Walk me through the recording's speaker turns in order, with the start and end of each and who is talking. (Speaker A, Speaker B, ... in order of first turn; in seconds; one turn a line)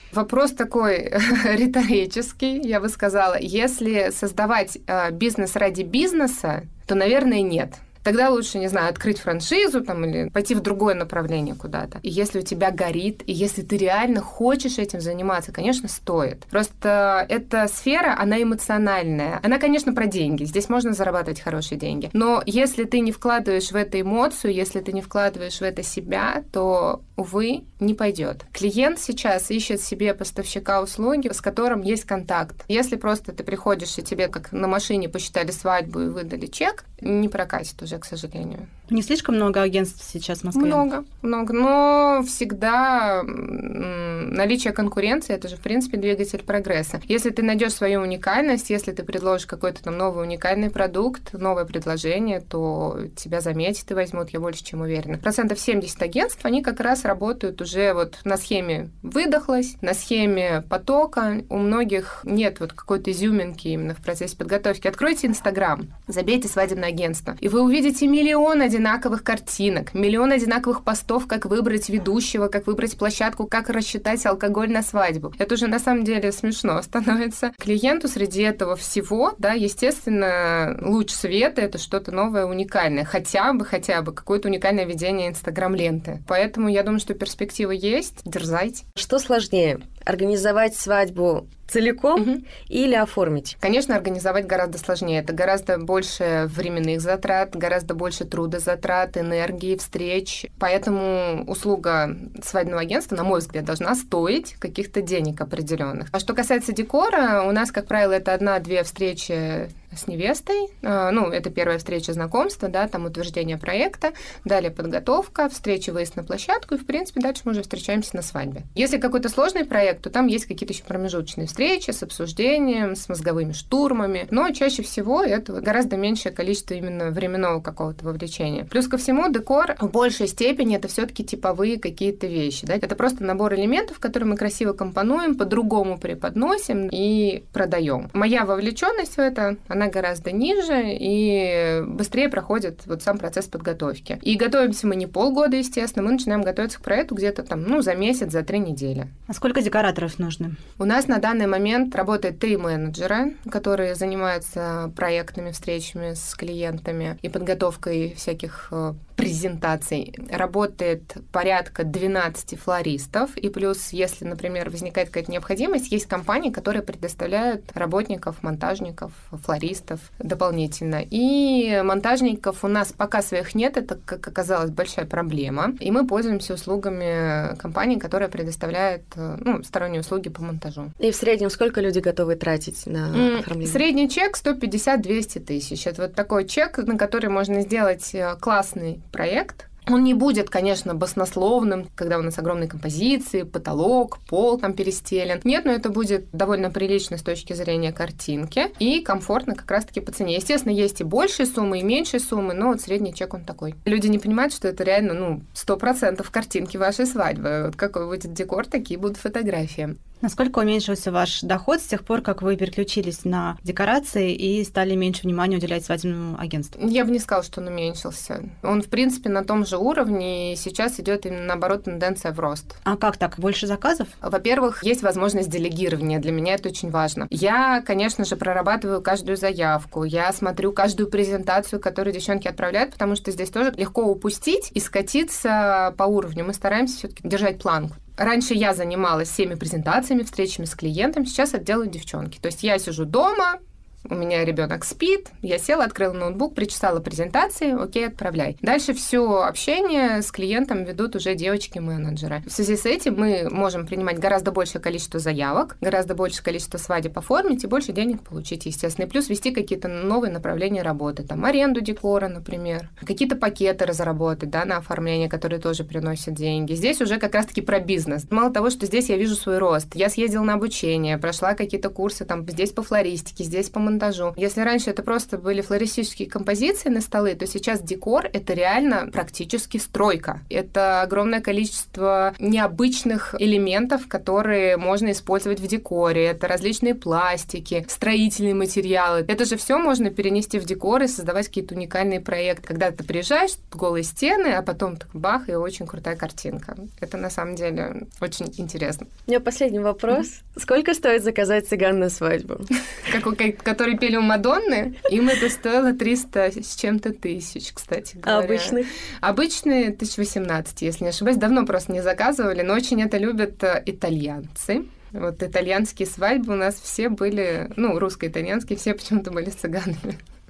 Speaker A: 0.1-38.7
Speaker B: 38.9-40.8
Speaker A: 40.5-88.8
Speaker C: 89.0-93.5
Speaker A: 92.2-92.4
Speaker A: 93.6-149.1
Speaker B: 149.3-150.6
Speaker A: 150.8-180.9
Speaker C: 181.0-183.8
Speaker A: 183.1-210.0
Speaker B: 210.2-216.7
Speaker A: 216.8-222.8
Speaker B: 222.8-224.1
Speaker A: 224.2-299.1
Speaker C: 299.3-302.7
Speaker A: 303.0-320.2
Speaker C: 308.2-308.9